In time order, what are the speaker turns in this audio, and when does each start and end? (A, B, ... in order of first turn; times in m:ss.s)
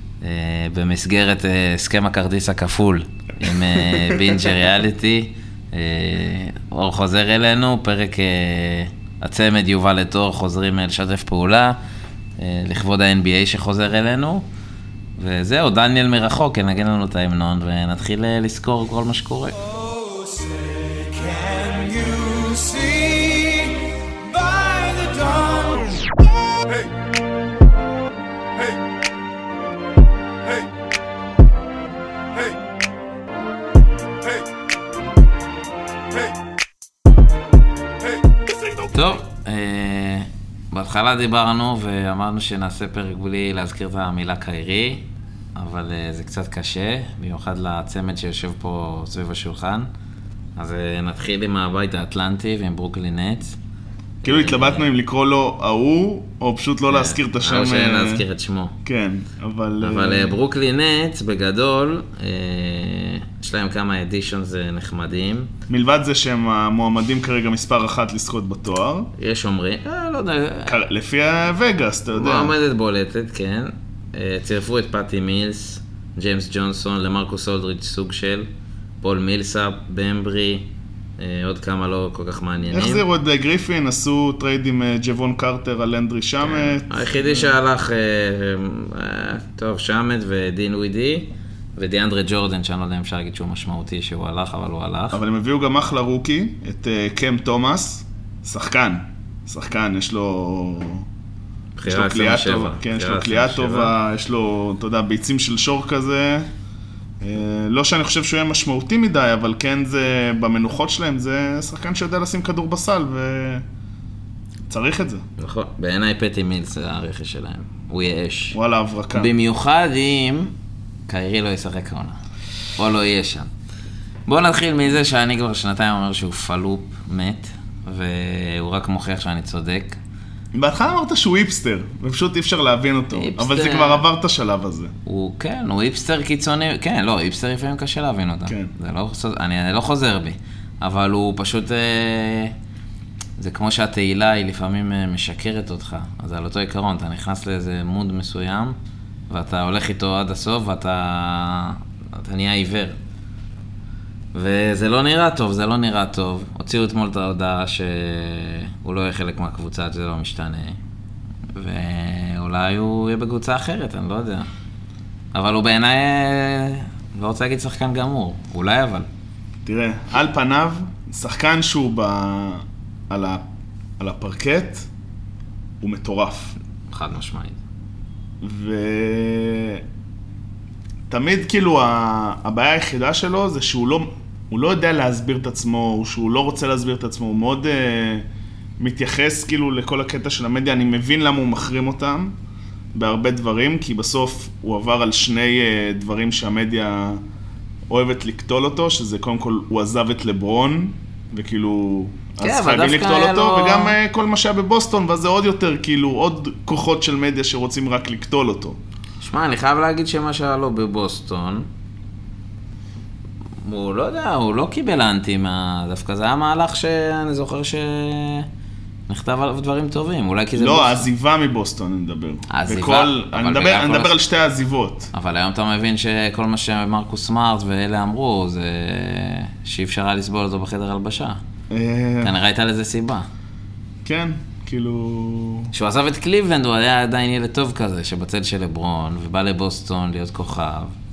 0:00.2-0:11.8 A
0:03.5-0:04.4 B
0:12.4-0:14.5 A
0:15.2-0:19.6 A
0:19.6-0:26.1 C
0:38.9-0:49.9 A
0:50.6-0:53.6 A
0:54.2-0:54.9 A
0:54.2-0:58.2 B
0:56.9-0:58.8 A
0:58.8-1:00.4 B
0:59.8-1:05.5 A
1:05.7-1:09.1 B
1:09.2-1:10.8 A
1:10.7-1:12.5 B
1:12.1-1:18.5 A
1:19.0-1:23.0 A
1:22.7-1:27.5 B
1:26.4-1:35.2 A
1:35.1-1:41.1 B
1:41.8-1:44.0 A
1:41.9-1:46.5 B
1:47.2-1:53.6 B
1:54.7-1:55.2 B
1:55.4-1:58.6 A
1:58.5-1:59.3 B
1:59.1-2:00.5 A
2:01.1-2:02.2 A
2:02.8-2:03.5 A
2:04.3-2:10.0 A
2:10.5-2:14.9 B
2:13.1-2:14.0 A
2:15.0-2:22.6 A
2:23.4-2:28.8 A
2:29.3-2:33.0 A
2:34.3-2:40.8 A
2:41.6-2:44.5 A
2:45.3-2:49.1 A
2:49.6-2:53.4 B
2:54.0-2:54.9 B
2:55.8-2:56.6 B
2:56.9-2:57.6 A
2:58.4-2:59.8 B
3:01.1-3:08.3 B
3:08.8-3:12.3 B
3:12.9-3:17.2 B
3:17.9-3:28.8 B
3:22.4-3:24.0 A
3:29.2-3:31.7 A
3:33.6-3:38.5 A
3:39.1-3:41.1 A
3:40.6-3:45.1 B
3:42.5-3:44.1 A
3:45.1-3:51.4 A
3:51.7-3:52.3 B
3:52.2-3:53.3 A
3:54.0-3:55.7 B
3:55.7-4:01.0 A